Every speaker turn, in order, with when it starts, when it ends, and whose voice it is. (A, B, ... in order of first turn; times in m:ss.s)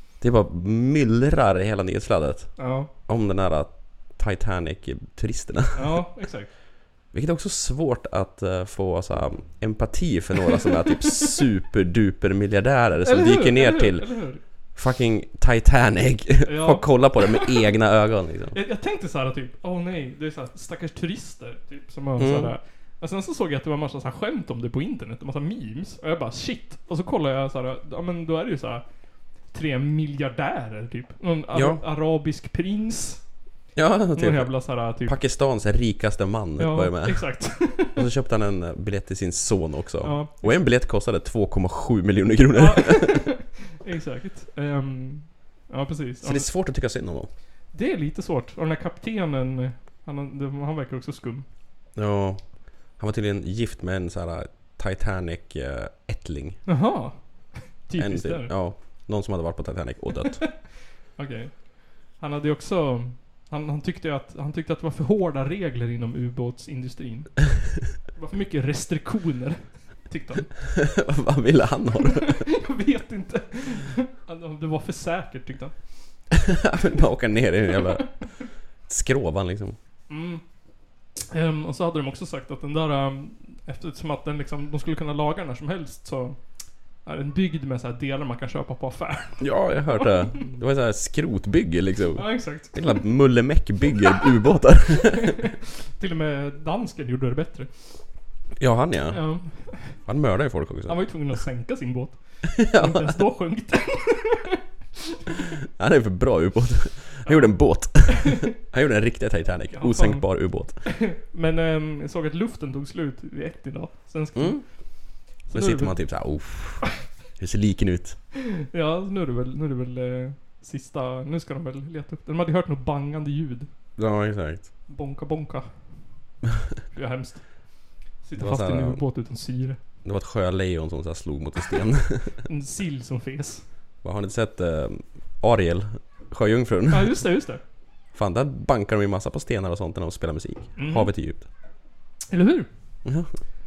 0:00.2-0:06.0 A
0:02.6-0:02.9 B
0:05.7-0:06.5 B
0:07.1-0:18.6 A
0:13.0-0:14.4 B
0:16.4-0:17.5 B
0:18.5-0:28.8 B
0:22.2-0:22.5 A
0:29.5-0:33.2 B
0:31.5-0:31.8 A
0:33.7-0:43.2 A
0:34.1-0:35.2 B
0:36.6-0:38.0 B
0:40.0-0:40.6 B
0:42.5-0:46.5 B
0:46.2-0:47.3 A
0:47.7-0:51.4 B
0:51.9-0:56.6 A
0:56.6-0:58.5 B
0:58.0-1:00.5 A
1:00.4-1:10.5 B
1:10.7-1:12.4 A
1:12.2-1:15.9 B
1:16.5-1:18.2 A
1:17.7-1:18.2 B
1:18.9-1:19.8 A
1:20.1-1:20.4 B
1:21.3-1:26.4 B
1:27.0-1:30.1 B
1:29.4-1:35.3 A
1:32.2-1:33.0 B
1:36.0-1:38.0 B
1:38.6-1:41.1 A
1:39.1-1:40.0 B
1:40.8-1:44.5 B
1:42.6-1:43.2 A
1:45.8-1:50.8 A
1:47.2-1:48.2 B
1:49.7-1:56.4 B
1:54.3-1:58.2 A
1:58.7-2:03.7 B
2:04.0-2:04.7 A
2:04.9-2:06.0 B
2:06.9-2:09.8 B
2:08.4-2:09.0 A
2:10.0-2:12.4 A
2:12.4-2:13.6 B
2:14.0-2:17.2 A
2:16.9-2:17.6 B
2:18.1-2:21.4 A
2:20.8-2:21.1 B
2:22.3-2:22.7 B
2:23.0-2:23.4 A